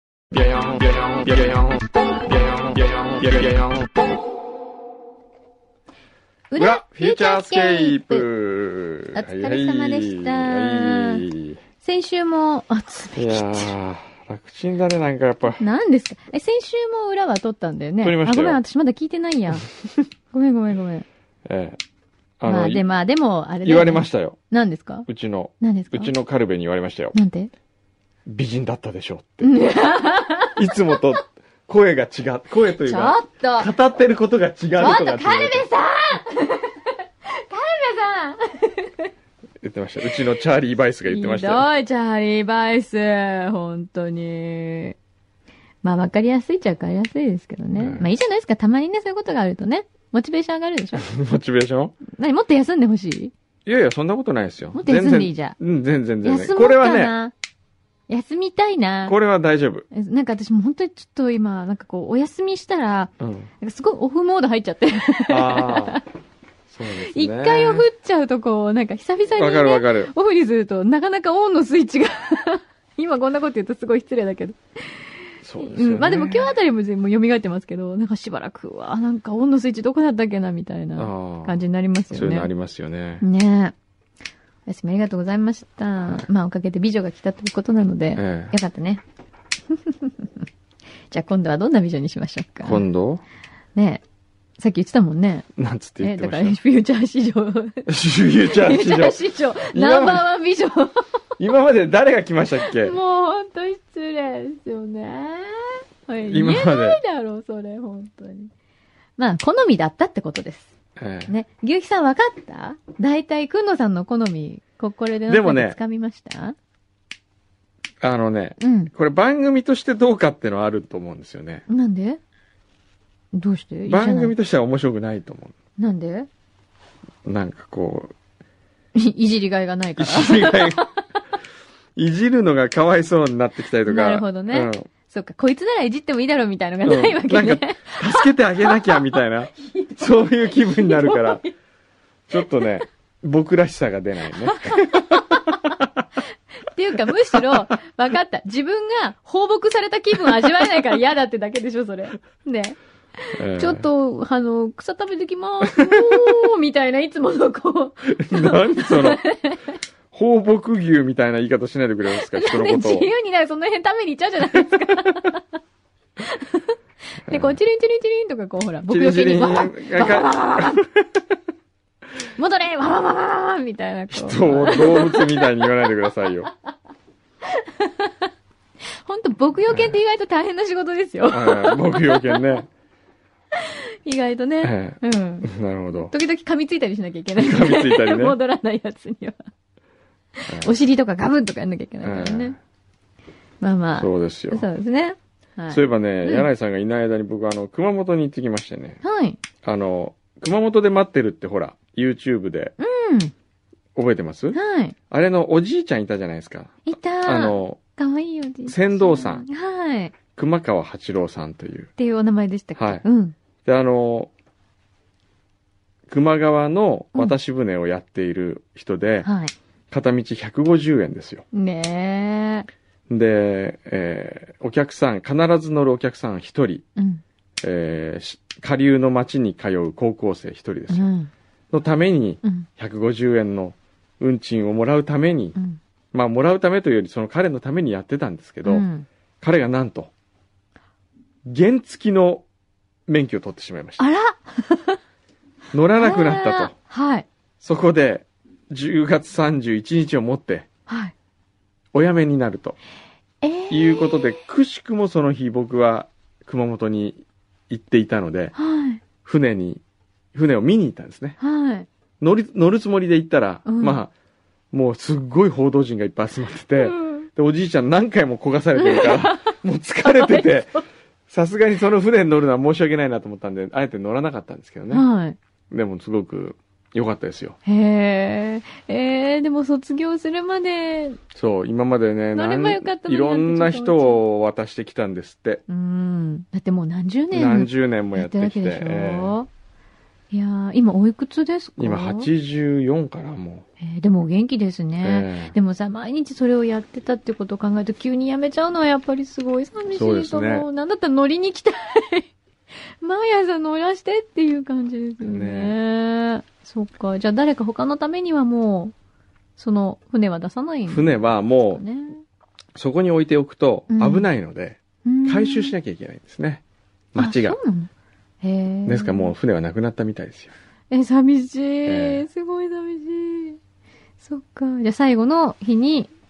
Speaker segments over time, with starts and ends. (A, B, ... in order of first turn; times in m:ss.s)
0:00.3-0:04.2 A
0:06.5-0:08.3 B
0:06.6-0:11.6 A
0:09.1-0:11.2 B
0:11.8-0:13.7 B
0:13.2-0:15.6 A
0:15.6-0:21.0 B
0:18.0-0:18.6 A
0:21.4-0:21.8 A
0:22.4-0:22.8 A
0:22.4-0:25.1 B
0:23.6-0:24.4 A
0:25.1-0:27.1 A
0:25.6-0:26.1 B
0:27.1-0:27.5 B
0:28.2-0:29.5 A
0:29.4-0:31.1 B
0:30.5-0:35.6 A
0:32.7-0:33.7 B
0:34.8-0:39.1 B
0:39.6-0:41.7 A
0:41.1-0:45.0 B
0:45.8-0:51.0 B
0:47.8-0:48.1 A
0:50.9-0:52.0 A
0:52.1-0:53.3 B
0:53.6-0:57.1 A
0:54.7-0:55.6 B
0:56.2-0:57.3 B
0:58.1-0:59.2 B
0:59.0-0:59.8 A
0:59.9-1:06.0 B
1:03.2-1:03.5 A
1:05.3-1:06.0 A
1:06.7-1:07.9 A
1:07.1-1:15.1 B
1:09.4-1:10.1 A
1:15.4-1:16.6 A
1:15.6-1:22.5 B
1:21.0-1:21.6 A
1:22.1-1:23.2 A
1:23.2-1:23.7 B
1:24.7-1:29.0 B
1:28.2-1:28.5 A
1:29.7-1:30.4 B
1:31.1-1:32.8 B
1:32.6-1:33.2 A
1:33.8-1:34.0 B
1:34.6-1:35.5 B
1:35.6-1:36.6 A
1:36.0-1:37.9 B
1:37.9-1:39.2 A
1:38.4-1:41.1 B
1:39.7-1:40.3 A
1:41.4-1:43.0 A
1:42.6-1:48.5 B
1:46.3-1:47.0 A
1:49.2-1:50.7 B
1:51.0-1:51.3 A
1:51.3-1:56.5 B
1:55.3-1:55.8 A
1:58.0-2:01.6 A
1:58.6-1:58.9 B
2:01.7-2:02.2 B
2:03.3-2:04.3 B
2:03.9-2:05.5 A
2:05.8-2:06.3 B
2:07.2-2:08.1 A
2:08.9-2:10.9 B
2:10.0-2:10.8 A
2:12.0-2:14.9 A
2:13.8-2:21.5 B
2:16.8-2:21.4 A
2:22.3-2:26.0 A
2:24.4-2:25.6 B
2:26.7-2:39.6 B
2:27.3-2:27.7 A
2:33.4-2:33.8 A
2:35.8-2:36.2 A
2:38.2-2:39.2 A
2:40.1-2:43.1 A
2:42.1-2:45.4 B
2:46.2-2:50.8 B
2:47.3-2:47.6 A
2:48.9-2:51.0 A
2:52.4-2:55.9 B
2:54.1-2:56.5 A
2:57.4-2:58.2 B
2:59.0-3:02.6 B
3:01.3-3:02.7 A
3:03.5-3:09.4 B
3:04.6-3:06.1 A
3:07.4-3:08.4 A
3:10.4-3:12.6 B
3:10.5-3:10.8 A
3:12.0-3:12.6 A
3:13.6-3:16.5 B
3:14.0-3:14.6 A
3:15.7-3:19.0 A
3:19.0-3:19.4 B
3:19.6-3:22.7 A
3:22.8-3:23.3 B
3:23.9-3:24.6 A
3:24.5-3:24.9 B
3:25.1-3:27.8 A
3:26.8-3:30.2 B
3:28.7-3:29.4 A
3:30.3-3:31.9 A
3:32.0-3:33.3 B
3:32.8-3:33.0 A
3:33.6-3:34.3 A
3:36.1-3:39.3 A
3:39.2-3:39.5 B
3:39.9-3:41.4 A
3:41.5-3:42.7 B
3:43.1-3:46.8 A
3:47.0-3:47.2 B
3:47.6-3:51.1 A
3:50.9-3:51.3 B
3:51.7-3:55.6 A
3:56.1-3:58.8 A
3:58.6-3:59.0 B
3:59.4-4:00.1 A
4:01.4-4:02.4 A
4:03.1-4:04.0 A
4:04.0-4:05.0 B
4:05.7-4:06.7 A
4:06.0-4:07.2 B
4:07.6-4:10.7 A
4:10.9-4:11.1 B
4:11.9-4:12.8 A
4:13.4-4:14.4 B
4:13.7-4:18.5 A
4:18.6-4:19.0 B
4:19.2-4:19.8 A
4:20.3-4:21.4 A
4:21.4-4:21.9 B
4:22.2-4:24.1 A
4:23.6-4:24.0 B
4:24.7-4:30.7 A
4:26.8-4:27.3 B
4:28.8-4:30.8 B
4:31.3-4:35.0 A
4:34.9-4:35.4 B
4:35.7-4:37.6 A
4:37.6-4:41.2 B
4:41.3-4:45.6 A
4:42.3-4:44.2 B
4:45.7-4:49.5 B
4:47.3-4:49.3 A
4:50.3-4:52.3 B
4:51.8-4:53.6 A
4:53.8-5:02.3 B
4:55.0-4:55.5 A
4:59.9-5:00.7 A
5:03.0-5:08.9 B
5:05.2-5:05.8 A
5:09.6-5:11.2 B
5:10.9-5:11.8 A
5:11.7-5:12.2 B
5:12.7-5:16.6 A
5:13.9-5:14.3 B
5:15.0-5:15.7 B
5:17.1-5:17.6 A
5:17.2-5:17.9 B
5:18.4-5:19.3 B
5:18.8-5:20.5 A
5:20.9-5:23.6 B
5:21.8-5:22.2 A
5:24.2-5:26.1 B